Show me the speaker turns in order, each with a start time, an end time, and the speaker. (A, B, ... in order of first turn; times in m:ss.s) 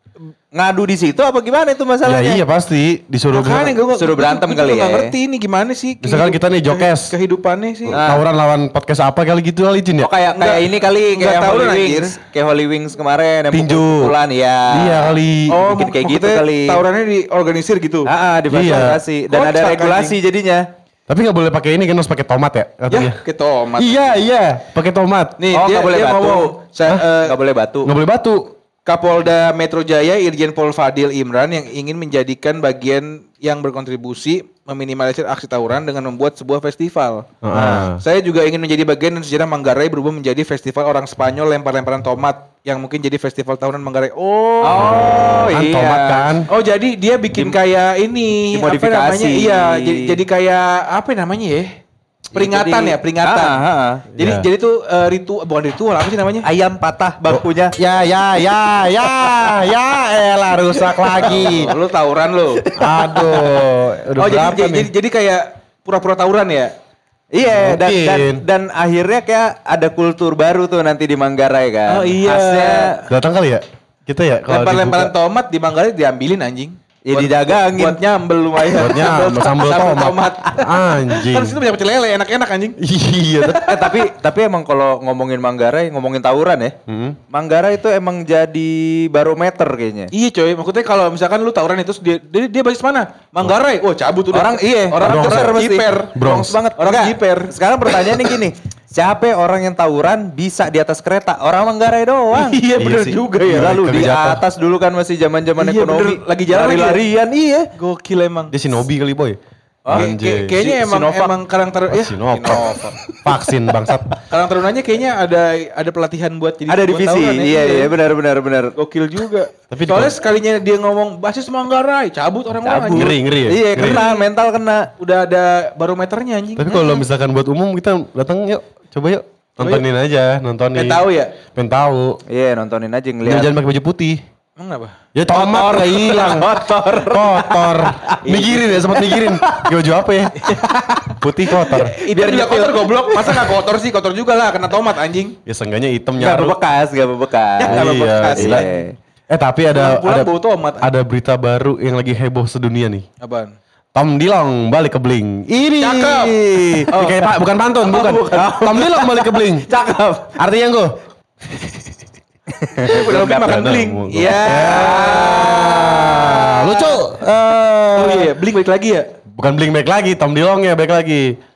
0:00.6-0:02.4 A
0:02.0-0:03.8 B
0:03.3-0:08.0 C
0:03.9-0:05.1 A
0:06.0-0:07.2 B
0:07.9-0:10.1 B
0:07.9-0:08.2 A
0:10.0-0:16.8 A
0:10.3-0:12.2 C
0:13.5-0:14.2 B
0:14.7-0:15.6 B
0:15.5-0:18.1 C
0:18.0-0:20.6 A
0:18.5-0:19.0 B
0:19.3-0:20.2 C
0:21.1-0:23.2 B
0:22.9-0:24.2 C
0:23.8-0:25.4 B
0:25.4-0:27.4 C
0:25.5-0:26.6 A
0:27.1-0:27.9 A
0:27.8-0:28.4 B
0:28.8-0:37.4 C
0:37.4-0:38.0 B
0:37.5-0:37.9 A
0:38.0-0:45.3 C
0:44.6-0:46.4 A
0:44.8-0:46.5 B
0:46.5-0:51.7 C
0:48.5-0:50.2 A
0:52.3-0:53.6 C
0:52.3-0:54.2 A
0:54.2-0:56.5 C
0:54.2-0:54.5 B
0:56.4-0:57.8 A
0:57.3-1:01.7 B
0:58.5-0:59.8 A
1:00.6-1:01.8 A
1:01.2-1:02.8 C
1:02.6-1:03.6 A
1:02.8-1:04.9 B
1:04.2-1:06.7 C
1:07.3-1:12.9 A
1:07.4-1:08.4 B
1:11.9-1:13.1 C
1:13.1-1:15.1 B
1:14.5-1:22.8 C
1:17.1-1:18.0 A
1:18.7-1:21.6 B
1:22.8-1:23.7 B
1:23.4-1:24.0 C
1:23.6-1:26.7 A
1:26.9-1:27.2 B
1:27.3-1:30.1 A
1:30.1-1:38.4 C
1:34.3-1:42.6 A
1:35.0-1:36.6 B
1:42.3-1:44.0 C
1:42.8-1:44.4 B
1:43.2-1:47.7 A
1:45.6-1:47.0 C
1:47.8-1:48.6 C
1:48.5-1:49.4 B
1:49.9-1:53.0 C
1:49.9-1:51.4 A
1:49.9-1:50.6 B
1:51.9-1:54.1 B
1:53.1-1:54.2 A
1:54.3-1:58.0 C
1:56.7-1:58.7 A
1:58.8-2:04.3 C
1:59.7-2:00.2 B
2:02.6-2:04.9 A
2:02.9-2:04.0 B
2:05.0-2:07.0 C
2:06.6-2:12.2 B
2:09.6-2:09.9 C
2:10.8-2:11.4 C
2:12.3-2:13.5 A
2:13.2-2:14.2 B
2:14.6-2:14.9 C
2:15.2-2:16.5 B
2:15.3-2:19.7 A
2:17.1-2:20.5 B
2:20.4-2:25.4 C
2:21.2-2:22.0 B
2:22.0-2:23.6 A
2:25.5-2:26.6 B
2:26.2-2:28.9 A
2:27.6-2:28.8 C
2:27.7-2:28.7 B
2:29.3-2:33.1 B
2:29.7-2:30.9 C
2:33.2-2:33.5 C
2:33.9-2:39.7 B
2:35.8-2:37.3 C
2:37.8-2:38.6 C
2:38.1-2:40.4 A
2:40.4-2:41.0 B
2:41.6-2:42.0 C
2:42.5-2:43.7 A
2:42.9-2:47.0 C
2:42.9-2:48.3 B
2:44.2-2:46.0 A
2:48.0-2:49.1 C
2:49.4-2:51.4 B